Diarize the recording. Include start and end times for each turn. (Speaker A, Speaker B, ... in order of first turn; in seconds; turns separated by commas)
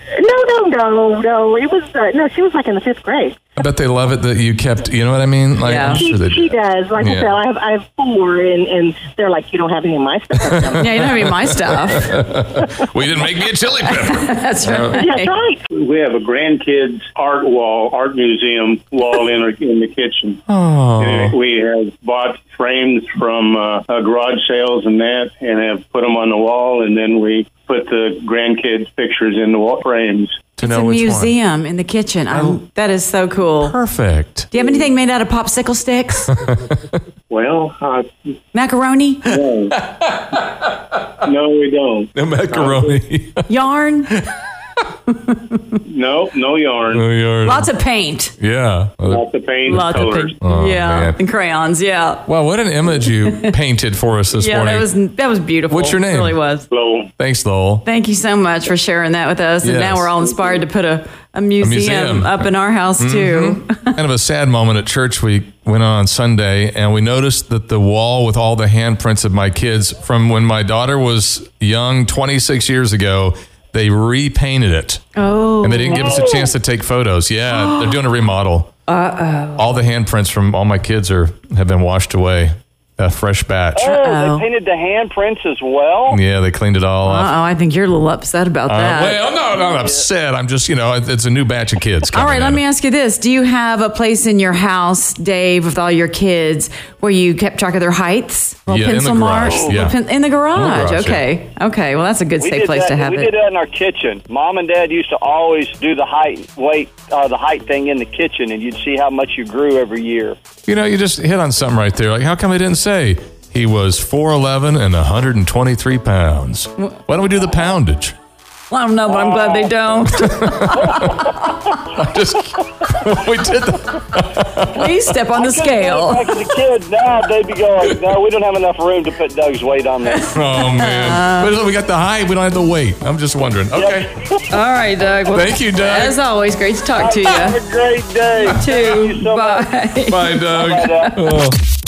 Speaker A: 0.2-3.4, Speaker B: 3.6-7.3, Speaker C: 5.6-6.0, Speaker A: 5.8-11.1, Speaker C: 10.8-12.2, Speaker B: 11.7-15.0, Speaker C: 13.9-15.4, Speaker A: 15.0-15.6, Speaker D: 15.7-20.4, Speaker B: 20.5-21.4, Speaker D: 21.0-30.3, Speaker B: 30.6-31.3, Speaker C: 30.6-33.8, Speaker B: 32.3-32.6, Speaker B: 33.6-34.5, Speaker C: 34.5-36.3, Speaker B: 36.3-36.7, Speaker D: 37.3-38.3, Speaker C: 38.5-39.4, Speaker D: 39.3-39.8, Speaker B: 39.8-40.7, Speaker D: 41.2-43.0, Speaker B: 42.1-43.5, Speaker C: 43.5-44.1, Speaker C: 45.3-45.8, Speaker D: 45.9-47.0, Speaker B: 46.9-47.7, Speaker C: 47.4-48.3, Speaker B: 48.4-51.2, Speaker D: 49.1-50.4, Speaker C: 49.7-52.3, Speaker B: 52.3-54.9, Speaker C: 53.0-53.5, Speaker C: 54.3-56.7, Speaker B: 55.7-56.4, Speaker D: 56.7-57.1, Speaker B: 57.2-57.9, Speaker C: 57.9-64.0, Speaker B: 59.6-60.1, Speaker B: 61.6-75.0, Speaker C: 75.2-76.2, Speaker B: 75.6-78.8, Speaker E: 75.9-76.5, Speaker C: 77.5-78.0, Speaker C: 78.9-79.9, Speaker B: 79.6-83.9, Speaker E: 83.8-86.2, Speaker C: 83.9-84.5, Speaker B: 86.1-87.3, Speaker C: 87.0-89.2, Speaker B: 88.7-92.6, Speaker E: 89.4-90.0, Speaker C: 92.1-103.3, Speaker B: 98.7-100.0, Speaker B: 100.5-101.2, Speaker E: 102.4-110.4, Speaker B: 110.7-118.2, Speaker C: 118.7-121.2, Speaker E: 119.1-119.8, Speaker B: 120.2-121.2, Speaker E: 120.9-121.3, Speaker B: 121.9-125.0, Speaker C: 124.7-126.3, Speaker E: 125.4-130.3, Speaker C: 130.2-131.5, Speaker B: 130.3-134.1, Speaker E: 133.7-134.3, Speaker C: 134.5-137.6, Speaker B: 135.3-136.2, Speaker E: 137.0-139.7, Speaker C: 138.5-140.4, Speaker B: 140.1-141.6, Speaker E: 140.5-141.1